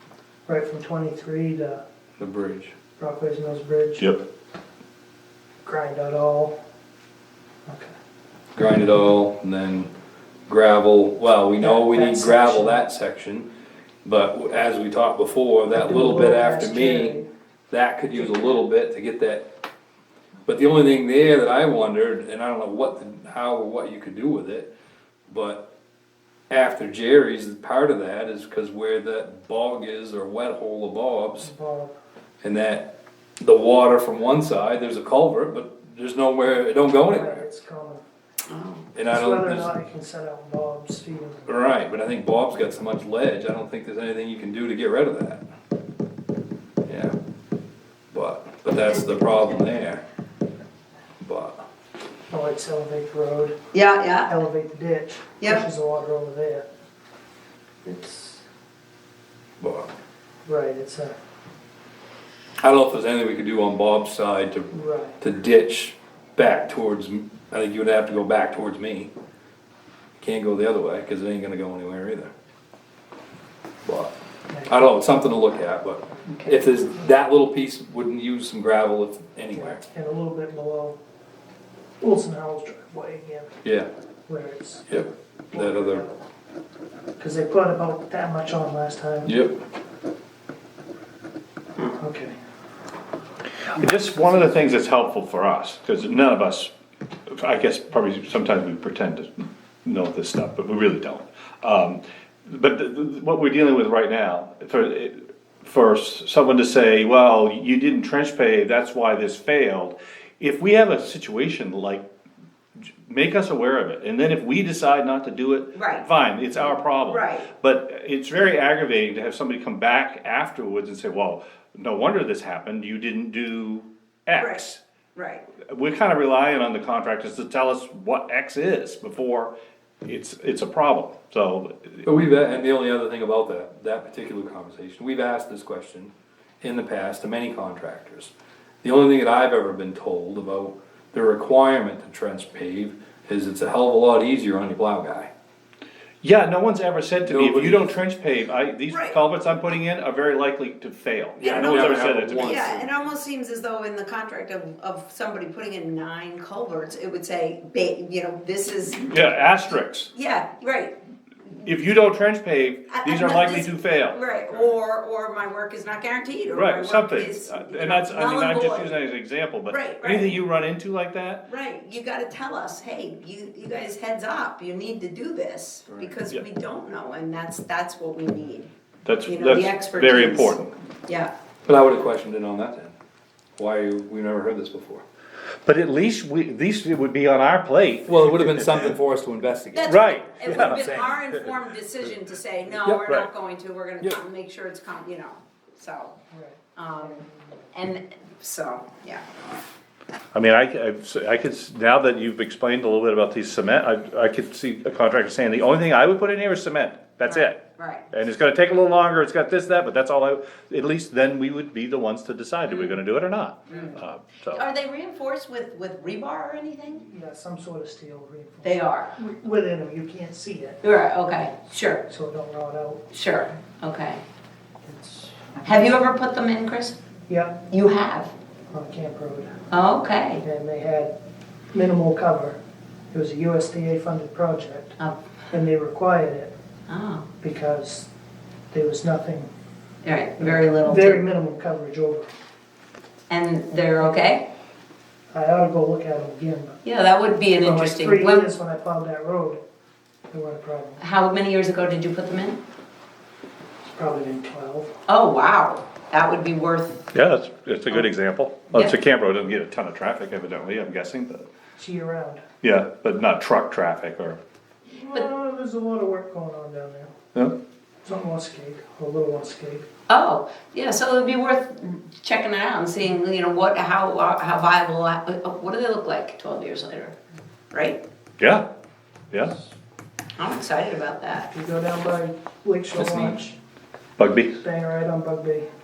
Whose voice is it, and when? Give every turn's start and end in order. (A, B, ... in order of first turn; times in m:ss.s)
0:00.5-0:01.8 A
0:02.2-0:02.7 B
0:03.0-0:04.1 A
0:05.6-0:06.6 A
0:07.7-0:07.9 A
0:08.6-0:09.9 B
0:10.5-0:13.5 B
0:11.6-0:12.8 A
0:14.0-0:17.2 B
0:15.8-0:17.3 A
0:17.7-0:19.5 B
0:18.1-0:18.6 A
0:20.5-0:24.7 B
0:25.3-0:25.7 B
0:26.5-0:31.5 B
0:31.4-0:31.9 A
0:32.4-0:37.4 B
0:37.1-0:38.0 A
0:38.5-0:38.9 C
0:39.0-0:39.7 B
0:39.1-0:41.6 A
0:41.5-0:45.4 B
0:46.9-0:47.2 B
0:48.1-0:50.0 B
0:48.9-0:49.5 C
0:51.2-0:51.6 B
0:52.3-0:53.6 A
0:53.7-0:54.3 C
0:54.3-0:56.6 A
0:55.4-0:55.7 C
0:57.9-0:58.4 A
0:59.6-0:59.9 B
1:00.5-1:01.2 A
1:02.6-1:04.7 B
1:04.7-1:05.2 A
1:05.2-1:09.1 B
1:10.2-1:12.3 B
1:13.8-1:14.1 B
1:14.5-1:14.8 A
1:14.7-1:19.8 B
1:19.6-1:21.0 A
1:22.0-1:23.6 A
1:24.3-1:26.2 A
1:24.9-1:26.1 B
1:27.2-1:29.3 A
1:29.3-1:29.6 B
1:32.0-1:32.4 A
1:33.6-1:36.7 D
1:37.3-1:52.0 D
1:53.0-2:04.8 D
1:55.8-1:56.1 C
1:57.0-1:57.5 C
2:05.2-2:05.4 C
2:05.6-2:09.5 D
2:10.0-2:12.1 D
2:12.0-2:18.3 B
2:18.8-2:25.3 B
2:26.2-2:32.8 D
2:27.2-2:27.9 B
2:28.9-2:29.2 C
2:31.4-2:32.9 B
2:31.4-2:39.2 C
2:39.0-2:40.1 D
2:40.1-2:41.0 C
2:41.6-2:44.7 D
2:42.9-2:49.0 C
2:46.5-2:51.5 D
2:49.7-2:50.4 C
2:51.5-2:58.7 C
2:55.9-2:56.2 B
2:59.0-3:00.7 D
2:59.2-3:00.6 C
3:01.1-3:01.3 C
3:01.7-3:02.9 B
3:03.6-3:05.0 B
3:05.6-3:08.9 D
3:08.1-3:11.2 B
3:09.7-3:16.1 C
3:09.9-3:10.9 D
3:16.3-3:17.7 A
3:16.8-3:19.2 C
3:20.3-3:34.6 D
3:27.3-3:28.1 C
3:32.7-3:33.0 C
3:33.7-3:34.0 C
3:34.5-3:37.0 C
3:37.0-3:40.8 A
3:38.6-3:39.1 C
3:40.8-3:42.0 C
3:42.1-3:43.1 A
3:43.1-3:44.2 C
3:44.8-3:45.3 A
3:45.6-3:47.0 C
3:47.3-3:47.6 A
3:47.7-3:48.3 C
3:48.7-3:49.5 A
3:49.7-3:50.4 C
3:50.4-3:51.1 A
3:51.7-3:52.6 A
3:53.1-3:55.0 A
3:55.5-3:56.5 A
3:56.9-3:57.3 C
3:57.4-3:58.1 A
3:58.7-3:59.5 A
4:00.0-4:01.2 C
4:00.4-4:02.3 A
4:03.3-4:04.5 C
4:04.0-4:04.3 A
4:05.3-4:06.8 A
4:06.8-4:08.5 C
4:07.6-4:09.6 A
4:10.3-4:11.0 A
4:11.0-4:12.6 C
4:13.9-4:14.9 A
4:15.1-4:17.0 C
4:17.1-4:21.5 D
4:21.8-4:22.4 A
4:22.6-4:24.4 D
4:24.9-4:27.1 A
4:28.0-4:29.9 A
4:30.1-4:37.2 C
4:37.7-4:38.0 C
4:38.4-4:38.6 D
4:40.4-4:41.5 C
4:41.5-4:43.6 A
4:43.0-4:43.4 B
4:44.2-4:44.5 D
4:44.5-4:45.7 A